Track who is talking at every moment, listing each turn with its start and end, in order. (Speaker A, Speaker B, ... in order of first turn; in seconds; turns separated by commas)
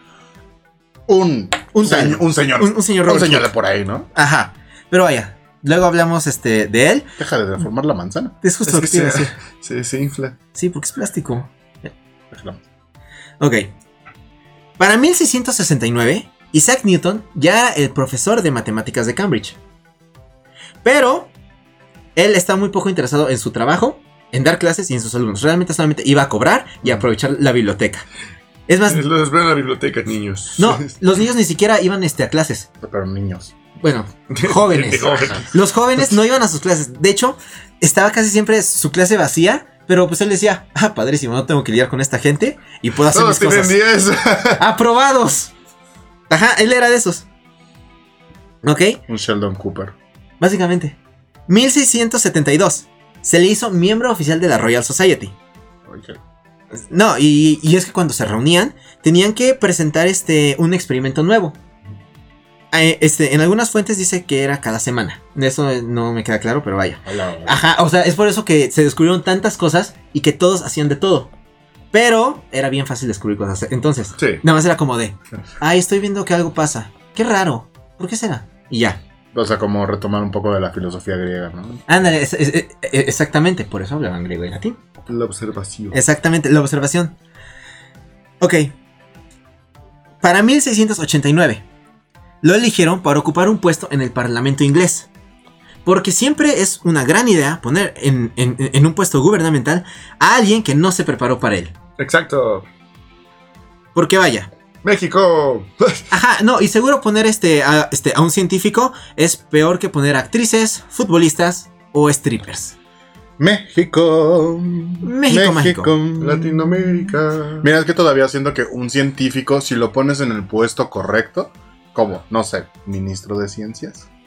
Speaker A: 1.1-4.1, Speaker B: 1.7-3.5, Speaker B: 4.1-7.1, Speaker A: 7.2-8.3, Speaker B: 8.4-9.3, Speaker C: 8.7-10.3, Speaker B: 10.5-11.9, Speaker A: 12.3-12.6, Speaker B: 13.4-13.7, Speaker B: 14.8-19.6, Speaker B: 20.8-21.3, Speaker B: 22.1-28.0, Speaker B: 28.7-29.0, Speaker C: 28.9-30.9, Speaker B: 30.6-32.7, Speaker A: 32.8-33.5, Speaker B: 33.8-43.8, Speaker C: 34.3-35.5, Speaker C: 43.1-44.6, Speaker B: 44.6-45.5, Speaker B: 46.3-47.2, Speaker B: 48.6-49.0, Speaker A: 49.1-49.9, Speaker B: 50.4-55.4, Speaker A: 55.9-56.2, Speaker B: 56.9-61.6, Speaker B: 62.7-71.3, Speaker A: 67.0-67.6, Speaker B: 71.9-79.0, Speaker C: 74.2-74.4, Speaker A: 79.3-81.8, Speaker B: 81.9-84.8, Speaker C: 85.1-86.0, Speaker B: 85.9-87.2, Speaker B: 88.4-88.7, Speaker B: 90.2-91.6, Speaker B: 92.4-95.1, Speaker B: 95.8-101.7, Speaker C: 102.0-102.7, Speaker B: 103.9-104.5, Speaker C: 104.8-106.1, Speaker B: 106.1-112.8, Speaker A: 113.4-124.1, Speaker B: 115.0-115.9, Speaker C: 116.2-117.7